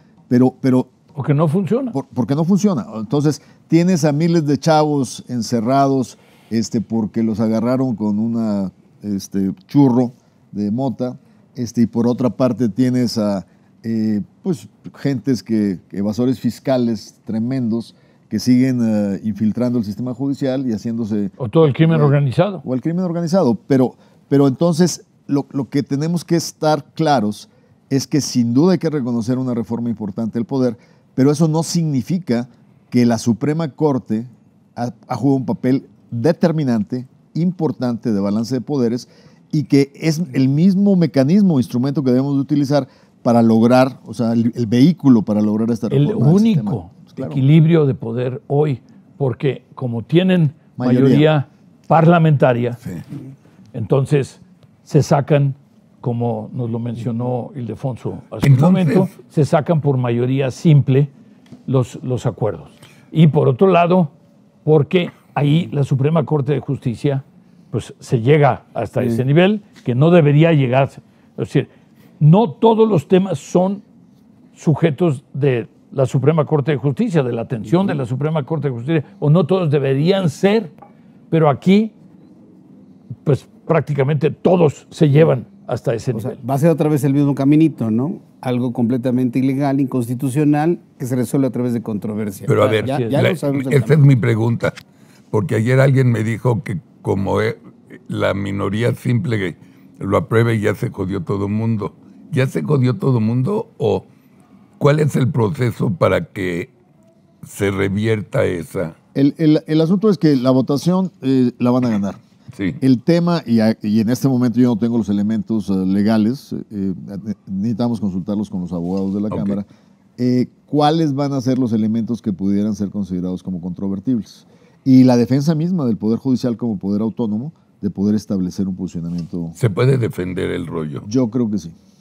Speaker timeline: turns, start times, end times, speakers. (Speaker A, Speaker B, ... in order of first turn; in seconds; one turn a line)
Speaker A: 0.3-0.9
Speaker B: 1.1-2.0
Speaker A: 1.9-47.4
Speaker B: 21.4-22.6
Speaker B: 45.9-52.8
Speaker A: 50.8-51.3
Speaker B: 53.7-61.1
Speaker C: 58.4-59.1
Speaker B: 61.6-64.1
Speaker B: 64.6-73.8
Speaker B: 74.5-80.7
Speaker B: 81.3-81.9
Speaker B: 83.2-86.4
Speaker D: 86.1-94.0
Speaker C: 92.5-94.8
Speaker B: 92.8-93.2
Speaker C: 95.3-104.1
Speaker C: 104.8-106.7
Speaker C: 107.4-108.9
Speaker A: 109.1-112.2
Speaker C: 112.5-112.8
Speaker A: 112.8-119.7
Speaker C: 119.3-119.6
Speaker A: 120.2-129.6
Speaker C: 129.6-131.1
Speaker A: 131.0-131.7